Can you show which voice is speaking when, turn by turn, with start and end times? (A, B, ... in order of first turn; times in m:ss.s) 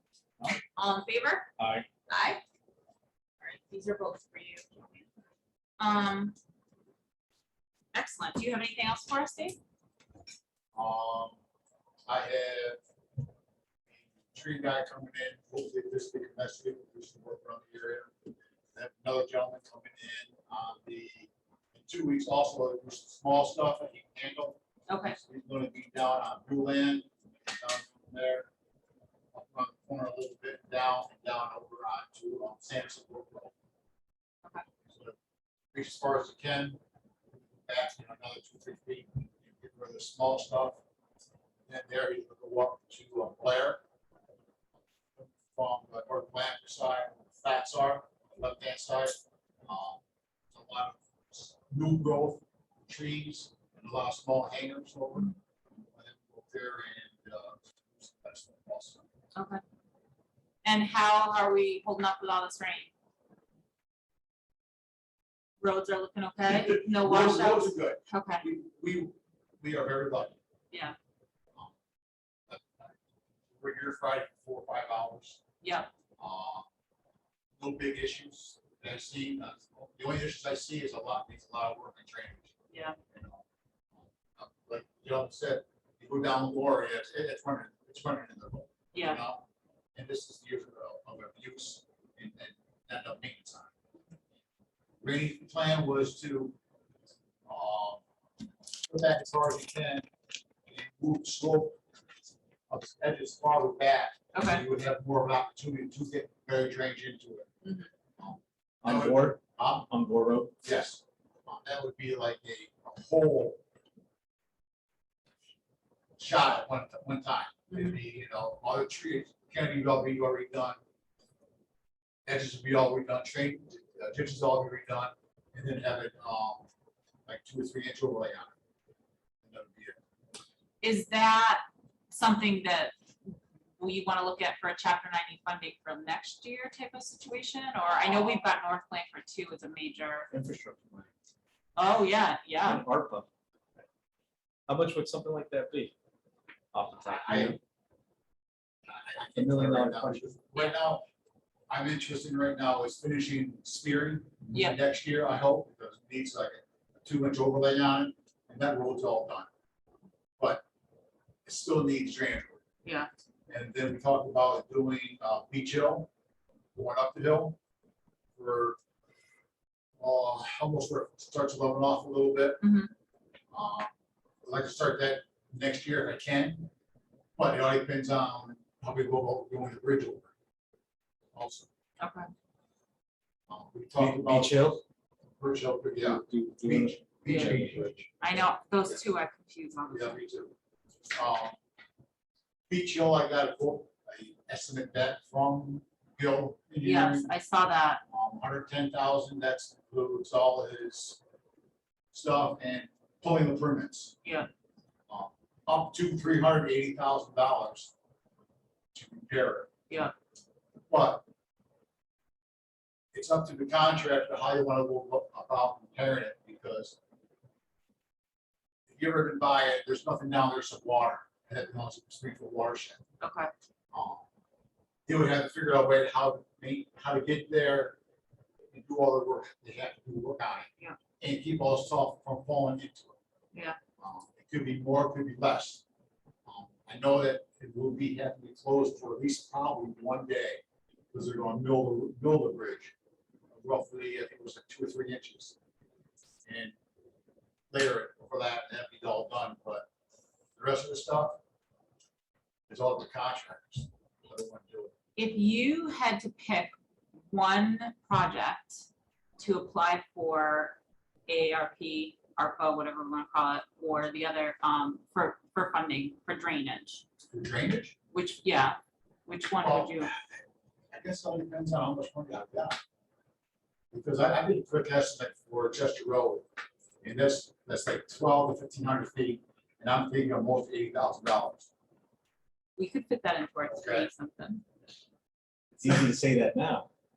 0:00.8-0:01.5 A
0:01.6-0:01.8 B
0:02.1-0:02.4 A
0:03.4-0:05.0 A
0:05.8-0:06.3 A
0:07.9-0:09.6 A
0:10.7-0:11.4 C
0:12.1-0:12.8 C
0:13.9-0:18.1 C
0:18.7-0:28.5 C
0:24.9-0:25.2 A
0:29.3-0:33.5 C
0:34.9-0:35.1 C
0:35.7-0:36.8 C
0:37.6-0:40.8 C
0:41.7-0:43.8 C
0:45.2-0:50.0 C
0:50.5-0:59.0 C
0:59.3-0:59.6 A
1:00.6-1:02.9 A
1:05.6-1:08.5 A
1:06.4-1:10.4 C
1:12.5-1:12.9 C
1:13.6-1:15.4 C
1:15.6-1:15.9 A
1:16.2-1:16.6 C
1:17.6-1:22.5 C
1:22.7-1:23.0 A
1:23.1-1:23.4 C
1:24.0-1:29.4 C
1:28.9-1:29.2 A
1:30.0-1:33.7 C
1:35.0-1:36.6 C
1:37.4-1:38.0 C
1:38.8-1:40.1 C
1:40.7-1:41.8 C
1:42.7-1:47.5 C
1:44.3-1:44.6 A
1:47.6-1:47.9 A
1:48.2-1:49.9 C
1:48.8-1:50.5 B
1:50.6-1:53.6 C
1:56.2-2:00.8 C
2:02.2-2:06.6 C
2:07.3-2:08.5 C
2:09.4-2:10.0 C
2:10.8-2:12.9 A
2:13.8-2:20.3 A
2:17.8-2:18.4 C
2:20.3-2:21.1 B
2:21.8-2:22.8 A
2:22.6-2:23.3 B
2:24.7-2:25.9 B
2:26.7-2:27.6 B
2:26.9-2:27.6 C
2:28.9-2:31.0 C
2:29.4-2:30.3 B
2:31.7-2:39.5 C
2:34.5-2:34.8 A
2:40.4-2:40.6 C
2:41.4-2:42.6 C
2:43.5-2:46.1 C
2:46.7-2:47.6 C
2:48.4-2:48.8 C
2:50.0-2:52.6 C
2:52.6-2:52.9 A
2:53.5-2:53.9 C
2:54.4-2:56.7 C
2:57.4-3:00.3 C
3:01.3-3:01.7 C
3:02.0-3:02.3 A
3:03.5-3:04.8 C
3:04.0-3:04.8 B
3:05.4-3:08.0 C
3:06.0-3:08.1 B
3:07.3-3:07.6 A
3:08.2-3:10.2 A
3:09.9-3:10.5 C
3:11.1-3:11.5 C
3:12.7-3:17.3 C
3:16.8-3:18.0 A
3:18.1-3:21.2 C
3:22.1-3:24.2 C
3:25.1-3:27.9 C
3:28.9-3:29.7 C
3:30.9-3:31.2 C
3:33.1-3:37.0 C
3:38.9-3:43.0 C
3:43.2-3:43.5 A
3:43.9-3:44.2 C
3:45.1-3:48.0 C
3:48.7-3:53.2 C
3:53.5-3:53.8 A
3:54.0-3:55.8 C
3:56.4-4:00.6 C
4:01.1-4:02.9 C
4:03.5-4:05.5 C
4:06.4-4:06.7 C
4:07.7-4:09.8 C
4:10.6-4:11.4 C
4:12.7-4:14.9 C
4:15.2-4:16.7 A
4:17.3-4:18.8 A
4:19.4-4:27.0 A
4:27.2-4:27.9 C
4:28.1-4:30.1 A
4:29.6-4:32.8 C
4:33.9-4:36.4 C
4:37.0-4:41.7 C
4:42.8-4:44.6 A
4:43.7-4:44.1 C
4:45.7-4:46.9 B